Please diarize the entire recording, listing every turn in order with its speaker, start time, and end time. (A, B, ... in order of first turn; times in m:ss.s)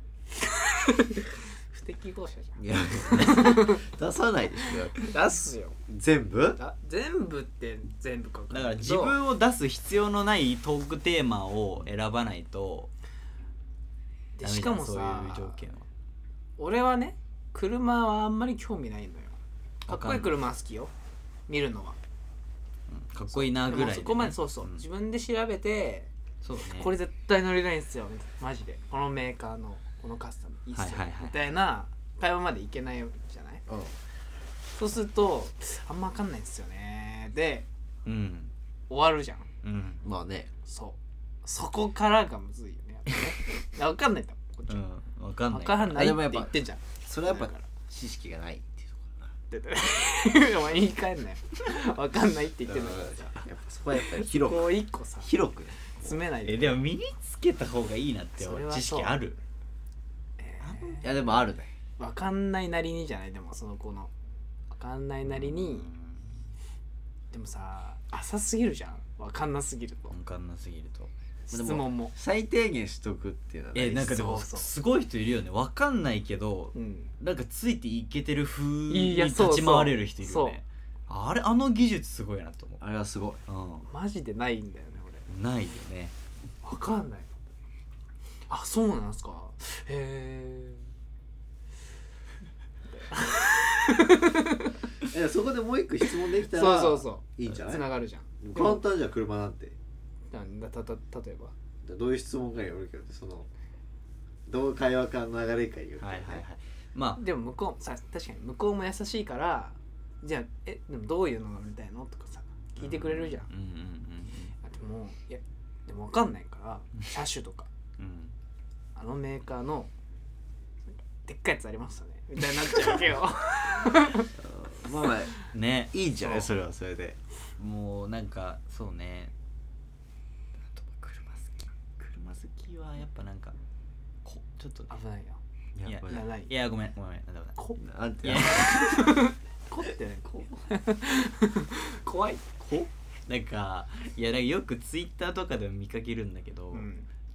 0:00.4-0:03.8 A
0:02.6-0:05.1 B
0:05.0-0:05.8 A
0:05.9-0:06.6 B
0:06.6-0:09.2 A
0:08.5-0:12.9 C
0:14.4-0:15.7 A
0:14.4-0:15.8 C
0:16.6-0:20.9 A
0:19.8-0:20.3 C
0:21.5-0:22.0 A
0:22.9-0:24.8 C
0:23.3-0:33.6 A
0:26.4-0:26.9 C
0:30.7-0:31.4 C
0:33.7-0:34.0 B
0:34.7-0:37.7 A
0:38.0-0:38.5 C
0:38.9-0:39.5 A
0:39.6-0:40.0 C
0:40.0-0:40.5 B
0:40.6-0:44.8 A
0:44.7-0:46.1 C
0:45.5-0:47.7 A
0:45.9-0:49.3 B
0:49.5-0:55.4 A
0:52.6-0:56.2 B
0:55.9-0:56.8 A
0:56.4-0:59.4 C
0:58.4-0:59.2 A
1:00.4-1:01.1 A
1:00.7-1:01.0 C
1:01.0-1:01.7 B
1:02.0-1:04.1 A
1:04.7-1:05.9 A
1:05.2-1:06.4 C
1:07.3-1:10.1 A
1:10.1-1:11.1 C
1:11.5-1:12.1 A
1:11.5-1:14.2 B
1:13.7-1:22.8 C
1:14.1-1:14.7 A
1:16.7-1:17.1 A
1:18.9-1:20.6 A
1:22.8-1:23.4 B
1:23.5-1:23.9 C
1:23.9-1:25.2 A
1:25.3-1:26.1 C
1:26.6-1:27.3 A
1:28.5-1:30.9 A
1:32.9-1:34.8 A
1:35.0-1:37.9 B
1:36.4-1:38.8 A
1:38.4-1:39.8 B
1:40.3-1:41.5 A
1:41.8-1:43.5 B
1:44.5-1:46.4 B
1:46.0-1:47.2 C
1:47.2-1:53.5 A
1:52.8-1:54.5 C
1:54.6-1:57.7 A
1:58.0-1:58.3 C
1:59.0-1:59.9 A
2:01.2-2:04.3 A
2:04.4-2:05.3 B
2:05.5-2:06.0 C
2:05.9-2:07.2 B
2:07.6-2:09.3 C
2:10.6-2:13.6 C
2:14.2-2:14.9 C
2:14.9-2:15.4 A
2:15.7-2:16.2 B
2:15.8-2:17.6 C
2:16.1-2:16.5 A
2:17.8-2:18.8 B
2:18.2-2:19.2 C
2:18.6-2:22.4 A
2:22.6-2:26.9 C
2:26.7-2:27.1 A